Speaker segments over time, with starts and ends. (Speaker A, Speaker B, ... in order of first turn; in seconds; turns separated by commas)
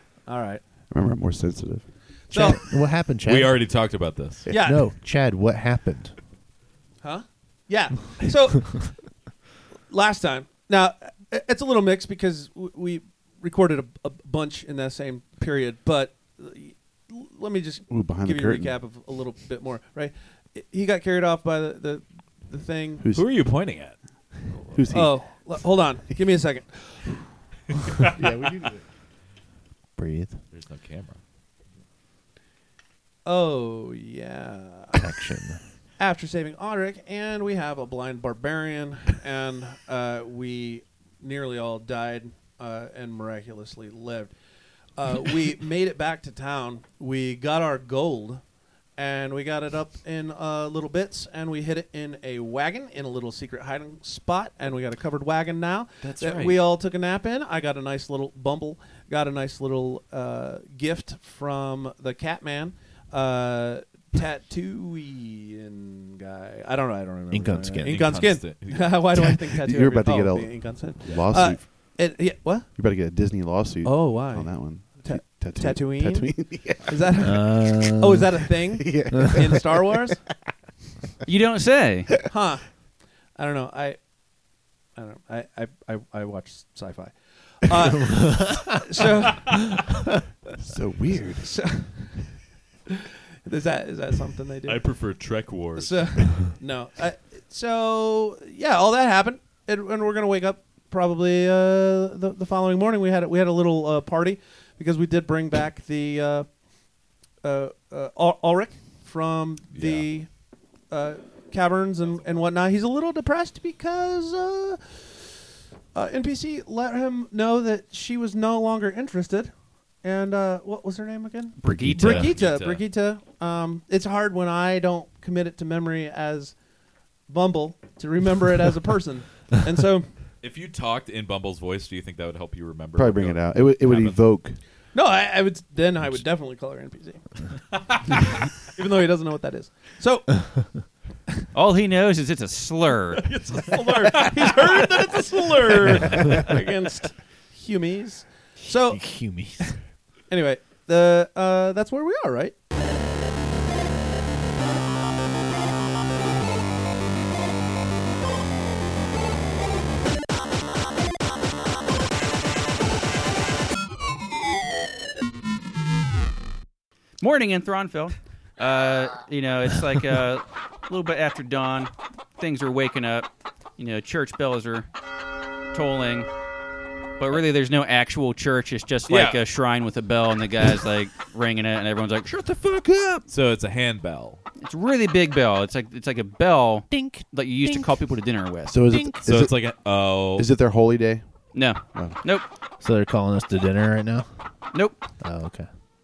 Speaker A: 0.3-0.6, Speaker B: 0.9-1.9, Speaker A: 2.3-2.7, Speaker C: 2.3-3.6, Speaker D: 3.2-4.5, Speaker A: 4.5-4.9, Speaker C: 4.5-6.2, Speaker A: 7.0-8.9, Speaker A: 9.9-23.1, Speaker B: 17.9-18.7, Speaker B: 23.0-23.3, Speaker D: 23.1-24.0, Speaker B: 24.7-25.4, Speaker A: 24.9-27.3, Speaker B: 28.1-28.8, Speaker C: 30.0-30.4, Speaker D: 30.5-31.2, Speaker A: 33.2-35.2, Speaker C: 35.0-35.6, Speaker A: 36.0-44.4, Speaker A: 45.0-48.4, Speaker A: 49.0-72.7, Speaker D: 56.0-56.6, Speaker C: 67.3-68.2, Speaker D: 67.9-69.4, Speaker B: 69.7-72.0, Speaker B: 72.8-77.0, Speaker A: 73.8-80.2, Speaker C: 77.2-78.3, Speaker B: 78.7-80.1, Speaker C: 79.1-79.6, Speaker E: 81.2-82.1, Speaker A: 82.3-82.6, Speaker A: 83.3-84.0, Speaker A: 85.0-89.8, Speaker C: 88.0-88.8, Speaker C: 89.5-89.9, Speaker B: 90.6-91.5, Speaker A: 91.4-92.3, Speaker A: 92.9-95.0, Speaker D: 94.6-96.5, Speaker A: 95.7-106.5, Speaker A: 107.4-110.3, Speaker D: 109.7-110.1, Speaker A: 110.9-115.3, Speaker A: 115.9-119.5, Speaker A: 120.0-126.6, Speaker E: 121.6-122.3, Speaker C: 121.7-122.3, Speaker D: 122.1-122.8, Speaker A: 127.3-130.1, Speaker D: 130.4-134.2, Speaker B: 133.0-134.6, Speaker A: 134.9-137.3, Speaker A: 138.7-140.8, Speaker E: 141.5-143.3, Speaker D: 143.3-146.1, Speaker A: 143.7-149.0, Speaker C: 148.7-149.8, Speaker A: 150.3-152.6, Speaker E: 167.2-174.9, Speaker E: 175.7-176.3, Speaker E: 177.2-182.4, Speaker D: 179.1-179.4, Speaker D: 183.3-184.4, Speaker E: 184.6-188.7, Speaker C: 186.9-187.9, Speaker B: 188.7-189.6, Speaker C: 188.9-189.2, Speaker D: 189.2-190.5, Speaker B: 190.4-191.2, Speaker E: 191.5-192.4, Speaker B: 191.9-192.2, Speaker C: 192.8-194.3, Speaker E: 194.7-195.0, Speaker C: 195.2-195.7